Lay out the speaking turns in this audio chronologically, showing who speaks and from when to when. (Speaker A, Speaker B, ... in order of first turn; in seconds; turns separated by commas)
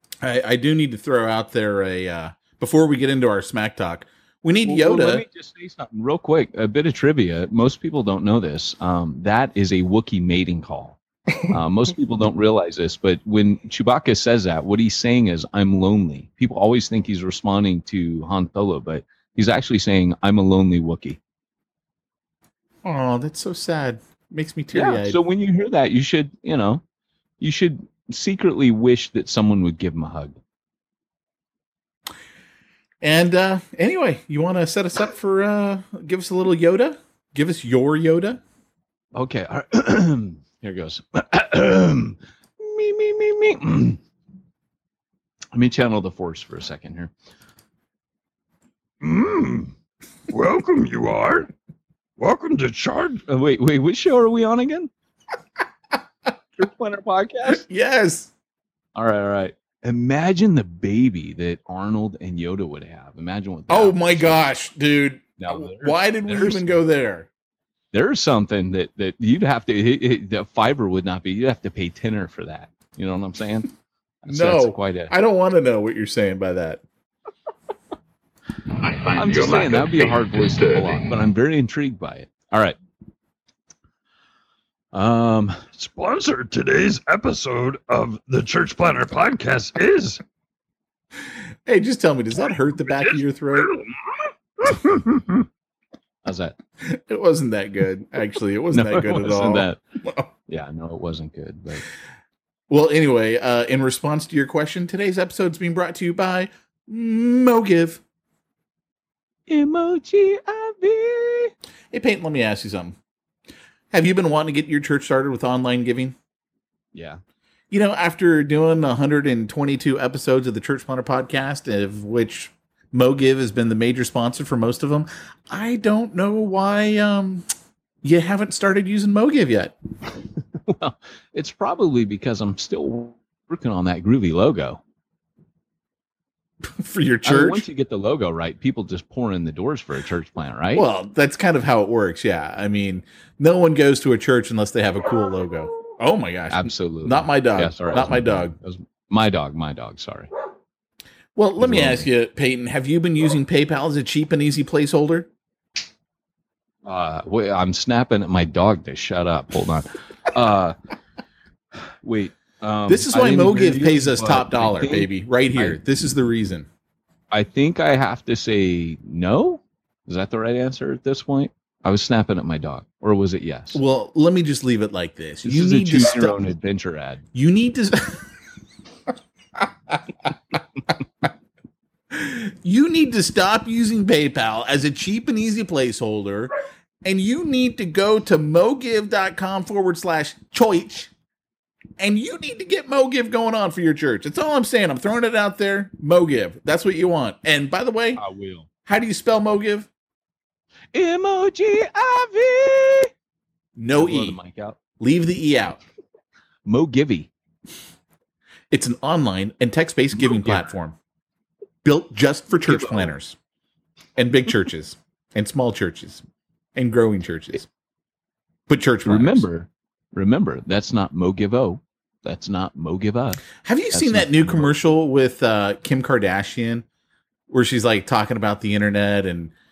Speaker A: 0.2-5.2, Speaker B: 4.6-11.0, Speaker B: 11.5-21.2, Speaker A: 22.8-25.2, Speaker B: 24.7-26.8, Speaker B: 27.4-30.4, Speaker A: 33.0-38.4, Speaker B: 39.1-44.0, Speaker B: 45.5-47.1, Speaker C: 49.0-49.7, Speaker C: 50.3-51.5, Speaker C: 52.2-53.2, Speaker B: 53.3-54.9, Speaker B: 56.6-57.6, Speaker A: 57.6-58.3, Speaker B: 59.0-64.4, Speaker A: 63.7-67.3, Speaker B: 65.4-66.8, Speaker B: 67.9-73.7, Speaker B: 74.2-75.1, Speaker A: 74.3-76.8, Speaker B: 79.1-82.8, Speaker B: 84.9-85.7, Speaker C: 85.7-90.2, Speaker A: 91.7-93.7, Speaker B: 96.2-96.5, Speaker A: 96.8-100.3, Speaker B: 98.7-99.8, Speaker B: 100.5-101.8, Speaker A: 102.7-108.0, Speaker B: 109.5-111.5, Speaker A: 111.9-113.0, Speaker A: 113.9-116.1, Speaker B: 116.9-117.2, Speaker A: 117.7-127.5, Speaker A: 128.0-129.8, Speaker B: 130.7-134.8, Speaker A: 136.7-137.7, Speaker B: 137.2-140.8, Speaker A: 140.7-148.5, Speaker B: 146.5-150.3, Speaker A: 151.3-155.3, Speaker B: 151.6-152.1, Speaker B: 156.8-160.8, Speaker B: 162.0-165.8, Speaker A: 162.9-166.7, Speaker B: 167.3-173.8, Speaker A: 173.7-176.5, Speaker B: 175.4-177.2, Speaker A: 177.3-178.3, Speaker A: 182.1-186.5, Speaker A: 187.0-191.1, Speaker A: 192.0-198.2, Speaker B: 198.2-198.7, Speaker A: 198.8-199.9, Speaker B: 200.9-203.1, Speaker A: 203.8-204.4, Speaker B: 203.9-204.8, Speaker A: 205.0-205.8, Speaker B: 206.7-207.3, Speaker A: 208.7-210.9, Speaker B: 210.2-210.7, Speaker A: 211.8-213.3, Speaker B: 212.7-213.1, Speaker A: 214.2-216.2, Speaker A: 216.7-217.7, Speaker A: 218.7-219.4, Speaker B: 219.0-224.7, Speaker A: 223.7-226.8, Speaker A: 227.5-229.5